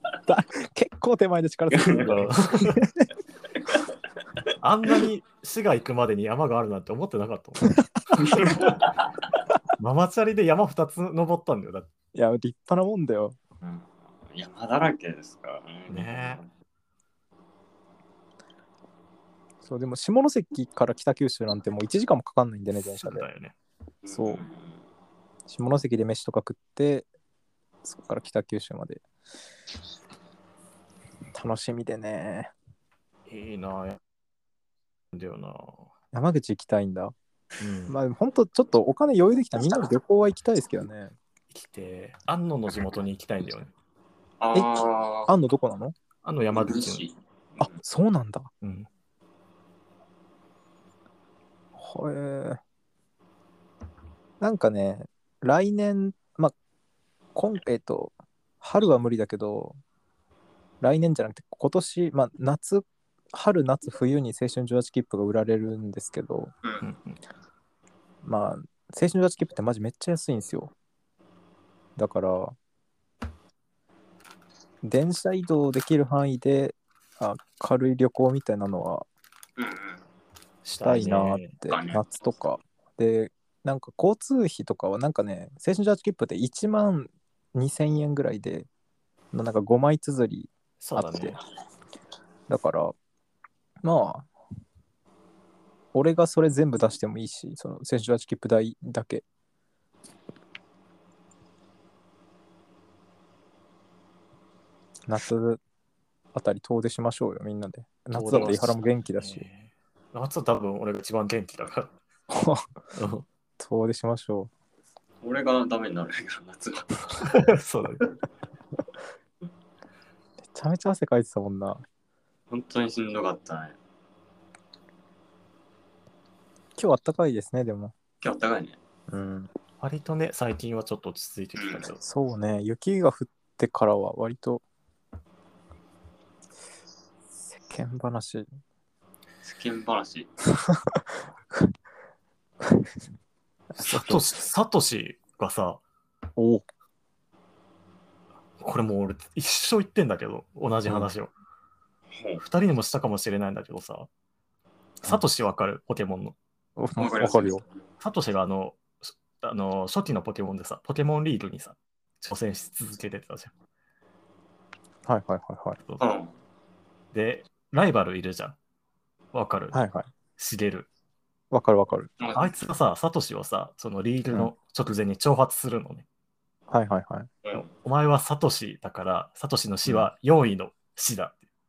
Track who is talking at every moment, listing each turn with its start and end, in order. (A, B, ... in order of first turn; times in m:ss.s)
0:00.3-0:03.1 A
0:01.7-0:02.2 B
0:01.9-0:02.8 C
0:04.6-0:08.8 C
0:08.2-0:08.8 B
0:09.8-0:11.9 C
0:12.1-0:13.4 A
0:13.6-0:16.5 B
0:15.9-0:16.4 C
0:19.6-0:23.3 A
0:22.7-0:23.5 C
0:24.0-0:24.7 B
0:24.1-0:24.4 A
0:25.5-0:27.1 A
0:27.8-0:29.0 A
0:31.3-0:32.5 A
0:33.3-0:34.0 C
0:35.1-0:35.8 C
0:36.1-0:37.1 A
0:37.6-0:38.0 C
0:37.9-0:41.1 A
0:41.5-0:43.7 C
0:44.4-0:45.3 B
0:44.5-0:46.0 A
0:46.2-0:47.0 C
0:46.5-0:47.8 B
0:47.6-0:48.5 A
0:48.6-0:48.9 C
0:51.7-0:52.6 A
0:54.4-0:56.6 A
0:57.4-0:59.8 A
1:00.8-1:06.5 A
1:06.8-1:07.2 C
1:08.2-1:10.7 A
1:12.0-1:12.6 A
1:14.8-1:19.1 A
1:19.6-1:20.0 B
1:20.6-1:21.5 C
1:20.8-1:28.7 A
1:21.7-1:22.1 B
1:29.3-1:31.4 A
1:30.8-1:31.4 C
1:32.5-1:33.0 A
1:33.8-1:34.3 A
1:35.9-1:39.2 A
1:45.1-1:45.6 A
1:46.3-1:49.4 A
1:48.1-1:52.0 C
1:52.3-1:52.7 A
1:52.9-1:53.3 C
1:53.6-1:54.5 A
1:55.2-1:57.1 B
1:57.3-1:58.0 C
2:00.4-2:01.8 A
2:02.5-2:03.8 B
2:06.8-2:07.9 A
2:08.2-2:08.8 B
2:09.1-2:09.5 A
2:09.8-2:12.0 C
2:11.6-2:11.9 B
2:12.0-2:14.6 A
2:17.5-2:18.5 A
2:19.4-2:20.3 B
2:20.6-2:21.7 A
2:22.6-2:22.9 A
2:23.8-2:24.4 A
2:23.8-2:25.8 C
2:26.4-2:26.6 A
2:28.6-2:31.3 C
2:30.9-2:31.1 A
2:32.4-2:34.1 C
2:35.0-2:36.4 C
2:36.8-2:37.6 A
2:37.0-2:37.7 B
2:38.0-2:43.5 C
2:45.1-2:45.8 A
2:46.0-2:46.3 B
2:47.1-2:48.6 C
2:49.3-2:49.8 C
2:49.7-2:50.1 A
2:50.4-2:50.9 C
2:51.5-2:52.1 A
2:52.2-2:52.5 B
2:52.4-2:56.0 C
2:56.7-2:57.3 A
2:57.6-3:01.4 C